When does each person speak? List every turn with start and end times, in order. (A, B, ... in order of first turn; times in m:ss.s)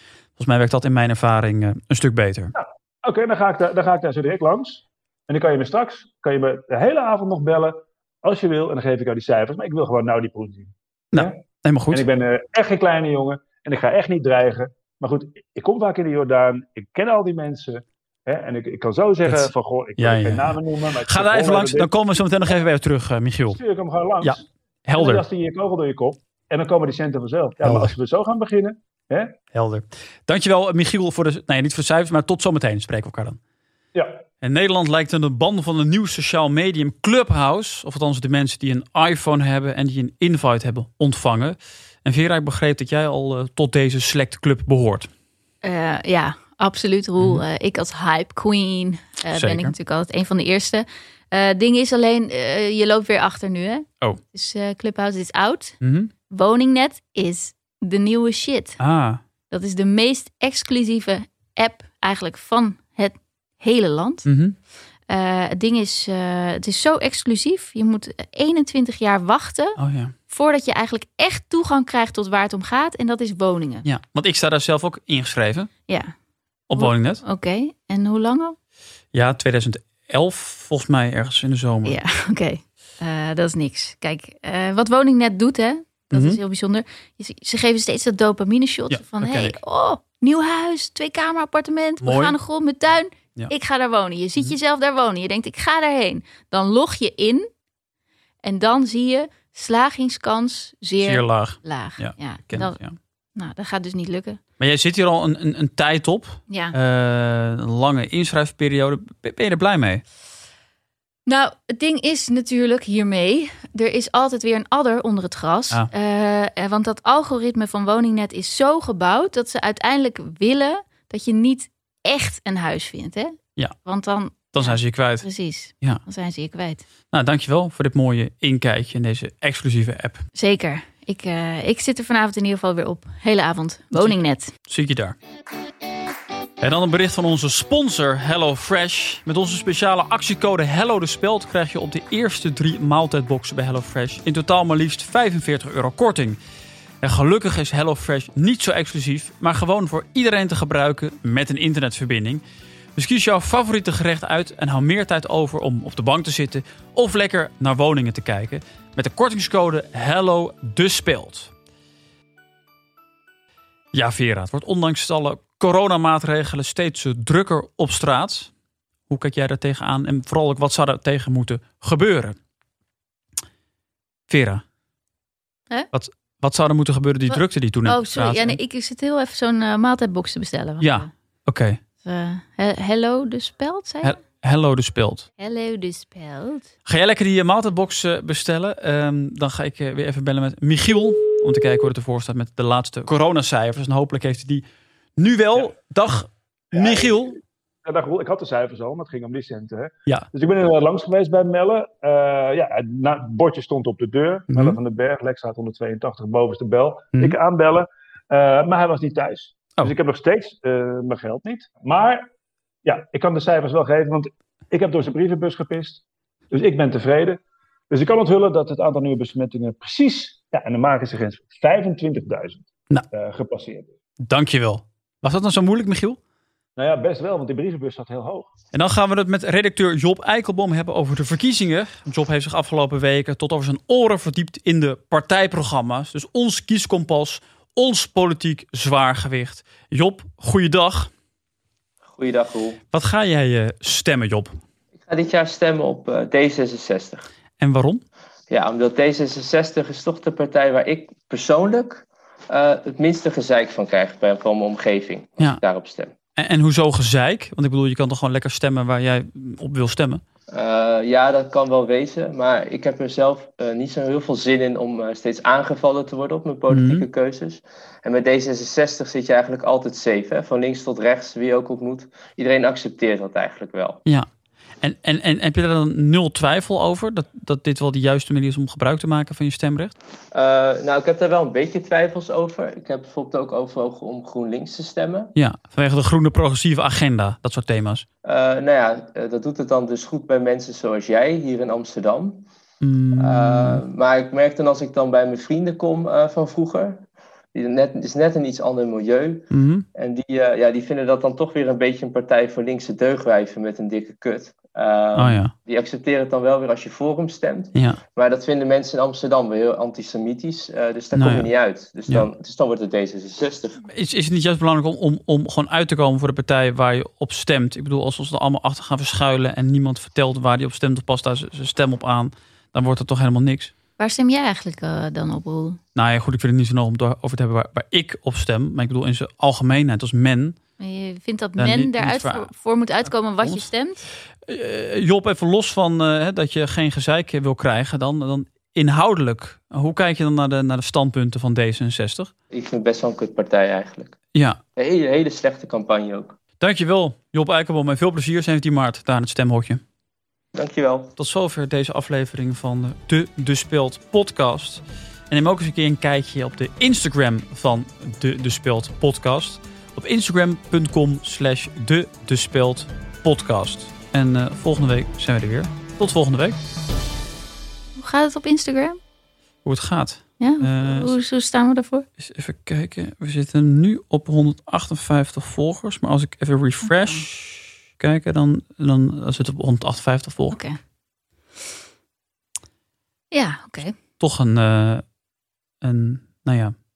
0:00.4-0:02.5 A
0:02.6-0:11.4 B
0:11.1-0:12.0 A
0:11.9-0:21.9 B
0:19.2-0:23.6 A
0:23.5-0:29.3 B
0:24.2-0:25.2 A
0:27.6-0:27.9 A
0:29.5-0:33.4 A
0:33.9-0:34.2 B
0:34.4-0:45.1 A
0:45.6-0:55.8 C
0:47.2-0:47.4 A
0:49.3-0:49.7 A
0:55.8-0:56.1 A
0:56.3-0:58.8 C
0:58.8-0:59.2 A
0:59.5-1:04.3 C
1:04.2-1:04.6 A
1:05.1-1:13.8 C
1:09.8-1:10.1 A
1:13.8-1:15.7 A
1:15.9-1:16.1 C
1:16.7-1:17.2 A
1:16.7-1:18.6 C
1:19.1-1:22.0 A
1:21.8-1:37.5 C
1:26.1-1:26.4 A
1:28.9-1:29.6 A
1:32.0-1:32.4 A
1:38.4-1:42.8 C
1:41.0-1:43.0 A
1:43.3-1:44.4 C
1:44.6-1:50.0 A
1:46.5-1:46.8 C
1:51.2-2:06.8 C
2:04.4-2:05.2 A
2:07.1-2:10.2 A
2:10.3-2:14.5 C
2:13.9-2:15.2 A
2:16.6-2:26.4 A
2:27.0-2:32.4 A
2:32.9-2:41.5 A
2:43.9-2:48.5 A
2:49.1-2:52.4 A
2:54.3-2:54.6 A
2:55.9-2:58.6 A
2:57.3-3:01.1 C
3:00.8-3:01.8 A
3:02.0-3:04.2 C
3:04.0-3:05.3 A
3:05.4-3:06.7 C
3:06.8-3:14.6 A
3:15.2-3:17.4 A
3:16.7-3:32.3 B
3:24.5-3:24.8 A
3:32.8-3:37.4 B
3:37.9-3:43.9 B
3:44.2-3:46.2 A
3:46.8-3:48.5 B
3:48.7-4:01.1 A
4:02.1-4:02.8 D
4:02.9-4:04.6 A
4:05.0-4:07.3 D
4:07.6-4:08.0 A
4:08.5-4:16.1 D
4:16.4-4:20.2 A
4:20.5-4:34.0 D
4:26.7-4:27.0 A
4:34.8-4:39.9 A
4:40.3-4:45.3 D
4:45.3-4:48.0 A
4:48.2-4:52.5 D
4:52.8-4:53.8 A
4:53.1-5:13.8 D
4:59.5-4:59.8 A
5:05.2-5:05.5 A
5:07.7-5:08.0 A
5:11.1-5:11.5 A
5:13.9-5:23.7 A
5:24.0-5:25.8 C
5:25.9-5:30.6 A
5:30.8-5:34.0 C
5:31.6-5:32.5 A
5:33.4-5:33.7 A
5:34.4-5:42.3 A
5:42.5-5:44.1 D
5:44.3-5:44.6 A
5:44.8-5:46.4 D
5:46.6-5:49.8 A
5:50.5-5:51.1 D
5:51.2-6:06.6 A
6:08.0-6:09.0 C
6:09.6-6:11.1 A
6:10.4-6:12.0 C
6:12.2-6:20.6 A
6:16.8-6:17.2 C
6:20.5-6:20.8 C
6:23.3-6:23.9 C
6:24.2-6:25.0 A
6:25.8-6:26.7 A